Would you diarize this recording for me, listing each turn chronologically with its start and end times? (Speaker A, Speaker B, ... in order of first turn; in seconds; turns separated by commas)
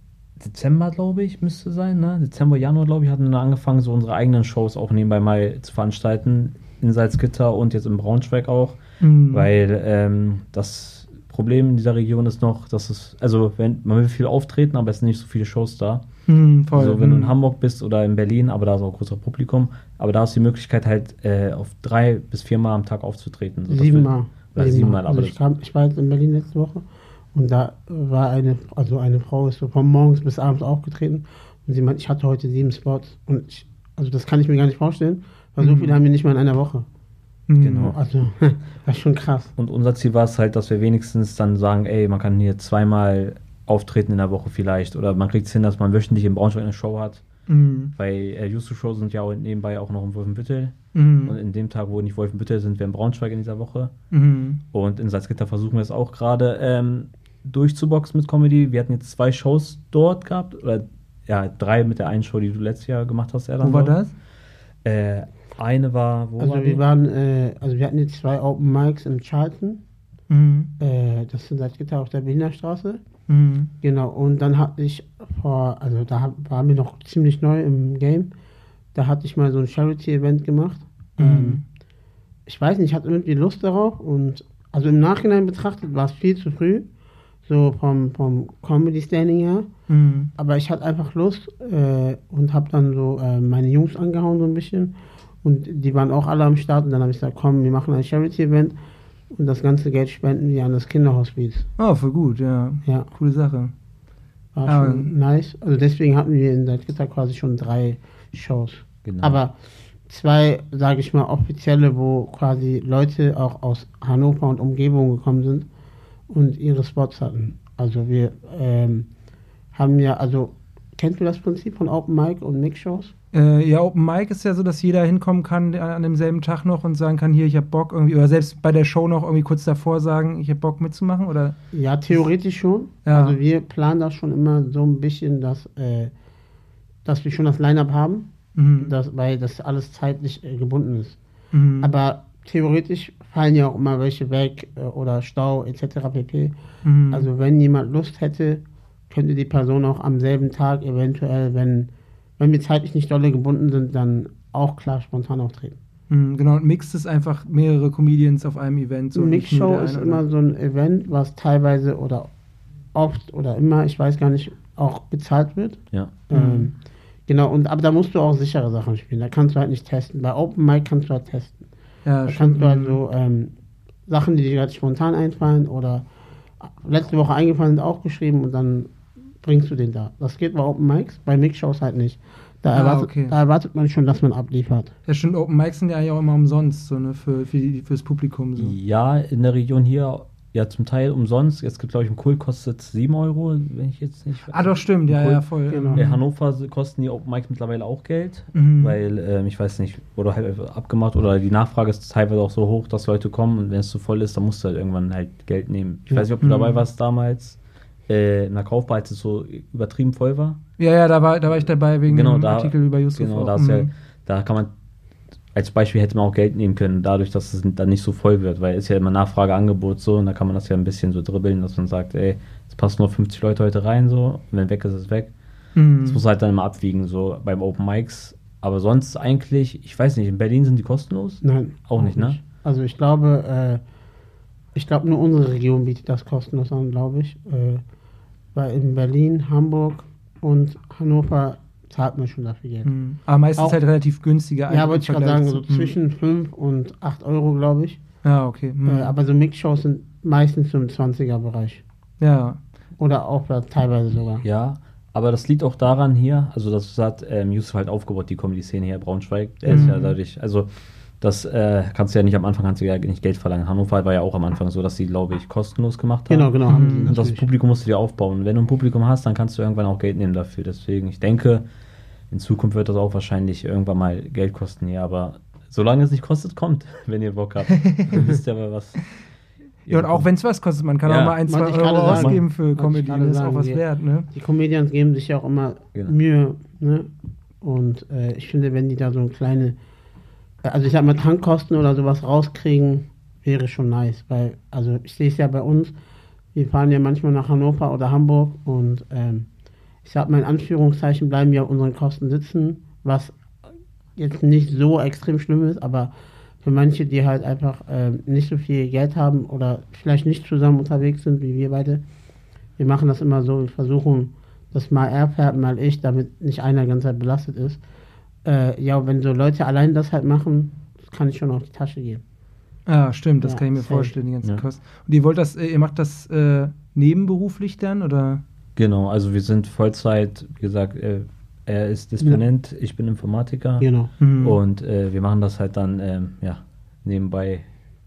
Speaker A: 0.4-8.8, Speaker B: 9.0-9.5, Speaker A: 9.3-16.0, Speaker B: 16.3-17.4, Speaker A: 16.7-25.4, Speaker C: 23.7-36.9, Speaker B: 35.6-36.0, Speaker B: 37.5-37.9, Speaker A: 37.6-38.0, Speaker C: 37.8-39.5, Speaker A: 39.6-47.2, Speaker B: 47.5-47.9, Speaker A: 48.0-53.9, Speaker B: 50.9-51.3, Speaker B: 54.1-54.6, Speaker A: 54.7-64.0, Speaker B: 63.6-64.1, Speaker A: 64.8-66.8, Speaker C: 66.4-69.8, Speaker B: 70.3-70.7, Speaker C: 70.8-73.0, Speaker B: 73.3-73.7, Speaker C: 73.8-78.3, Speaker C: 78.9-81.6, Speaker B: 81.2-81.6, Speaker C: 82.5-86.9, Speaker C: 87.5-89.7, Speaker B: 89.9-90.3, Speaker C: 90.3-98.7, Speaker C: 99.3-101.7, Speaker B: 101.8-103.7, Speaker C: 104.5-109.5, Speaker B: 104.7-105.1, Speaker A: 109.0-109.4, Speaker C: 110.1-115.7, Speaker C: 116.3-119.1, Speaker C: 119.7-123.1, Speaker B: 123.3-131.6, Speaker C: 131.7-136.1, Speaker B: 133.0-133.4, Speaker C: 137.0-141.2, Speaker B: 138.6-138.9, Speaker B: 141.5-141.9, Speaker C: 141.8-146.5, Speaker B: 146.8-147.3, Speaker C: 147.1-155.8, Speaker B: 156.1-160.2, Speaker C: 159.1-162.3, Speaker C: 162.9-166.7, Speaker B: 166.3-166.7, Speaker C: 167.3-171.6, Speaker B: 172.0-173.0, Speaker C: 172.2-173.5, Speaker C: 174.1-176.1, Speaker C: 176.6-184.9, Speaker B: 182.7-183.3, Speaker B: 185.1-188.7, Speaker A: 188.6-210.6, Speaker B: 194.5-196.2, Speaker C: 195.7-196.0, Speaker B: 198.5-198.9, Speaker B: 206.4-206.8, Speaker B: 210.8-213.9, Speaker A: 212.1-214.7, Speaker A: 215.5-225.3, Speaker B: 225.8-226.2, Speaker A: 226.0-232.4, Speaker C: 231.4-233.8, Speaker C: 234.7-237.8, Speaker C: 238.5-242.9, Speaker B: 242.8-245.9, Speaker C: 244.7-248.0, Speaker B: 248.2-249.1, Speaker C: 248.8-251.8, Speaker B: 252.2-252.6, Speaker C: 253.0-254.4, Speaker A: 254.4-260.7, Speaker C: 259.6-260.0, Speaker B: 259.7-260.1, Speaker A: 261.2-266.5, Speaker C: 266.3-267.4, Speaker B: 266.7-267.1, Speaker A: 267.1-271.6, Speaker A: 272.3-279.2, Speaker B: 277.8-278.1, Speaker A: 279.9-280.3, Speaker B: 279.9-284.3, Speaker A: 281.0-281.4, Speaker C: 281.5-283.8, Speaker A: 282.0-282.4, Speaker C: 284.3-289.8, Speaker C: 290.6-295.9, Speaker C: 296.5-299.5, Speaker C: 300.0-303.4, Speaker C: 304.1-312.0, Speaker C: 312.8-317.8, Speaker C: 318.4-322.2, Speaker B: 322.9-328.4, Speaker C: 323.4-324.1, Speaker A: 328.8-337.6, Speaker C: 333.8-334.1, Speaker B: 334.2-334.6